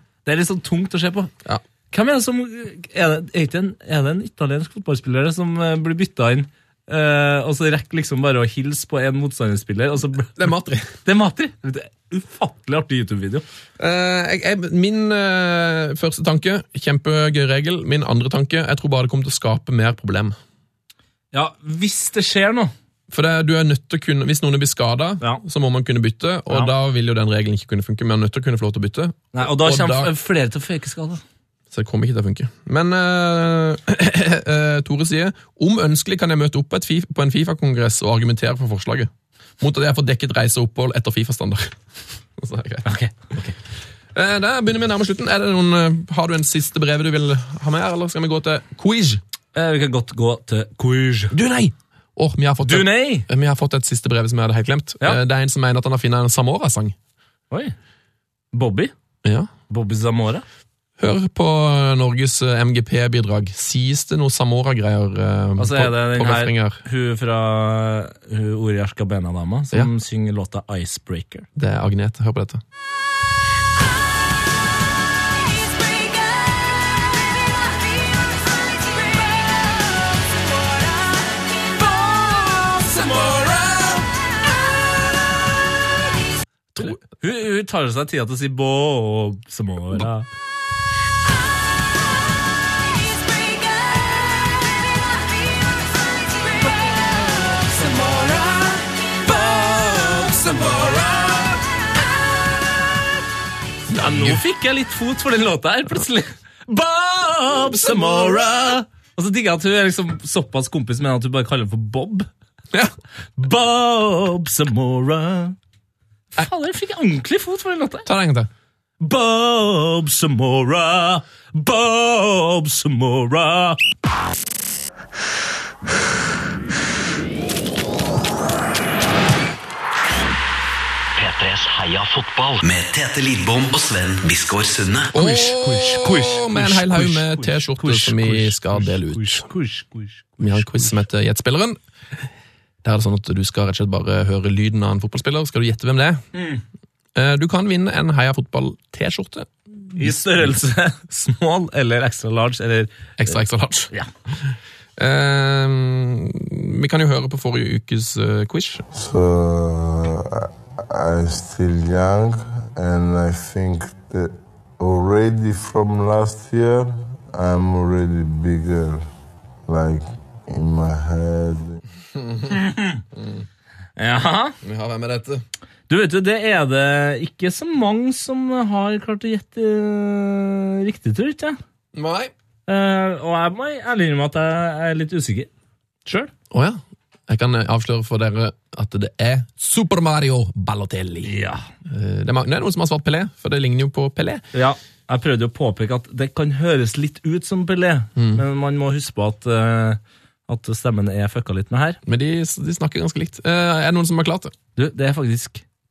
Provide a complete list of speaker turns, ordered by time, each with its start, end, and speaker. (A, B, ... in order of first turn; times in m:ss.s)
0:00.2-0:01.3 A
0:01.9-0:10.4 A
0:10.4-0:10.9 B
0:11.0-0:13.4 A
0:13.8-0:20.4 B
0:21.3-0:22.7 A
0:23.1-0:30.1 B
0:29.3-0:31.2 A
0:31.7-0:41.8 B
0:42.4-0:42.9 B
0:42.8-0:43.5 A
0:44.1-0:49.2 B
0:49.5-0:51.3 A
0:51.3-0:56.9 B
0:52.6-0:53.2 A
0:58.5-0:58.9 A
0:59.2-0:59.5 B
0:59.7-1:00.4 A
1:01.0-1:06.8 B
1:05.6-1:11.5 A
1:11.5-1:12.6 B
1:21.8-1:24.1 A
1:26.7-1:27.0 B
1:26.8-1:30.3 A
1:37.6-1:41.5 A
1:43.9-1:44.4 B
1:44.0-1:52.3 A
1:47.6-1:48.7 B
1:53.4-1:55.6 A
1:56.3-1:58.1 A
1:58.0-1:58.5 B
1:59.0-2:03.8 A
2:11.2-2:15.1 C
2:15.1-2:19.5 B
2:15.2-2:20.9 A
2:20.4-2:21.8 B
2:22.8-2:26.2 B
2:26.3-2:26.6 A
2:27.1-2:30.5 B
2:30.0-2:33.4 A
2:33.2-2:33.9 B
2:35.0-2:38.8 B
2:38.9-2:49.0 D
2:49.7-2:51.8 D
2:52.5-2:53.0 A
2:54.0-2:54.6 A
2:54.6-2:55.4 B
2:55.9-3:01.6 A
3:01.9-3:02.3 B
3:02.7-3:05.5 A
3:06.0-3:06.3 A
3:06.5-3:11.3 B
3:11.2-3:11.6 A
3:11.8-3:14.4 B
3:14.5-3:22.0 A
3:18.2-3:18.4 B
3:22.0-3:24.5 B
3:24.8-3:25.6 A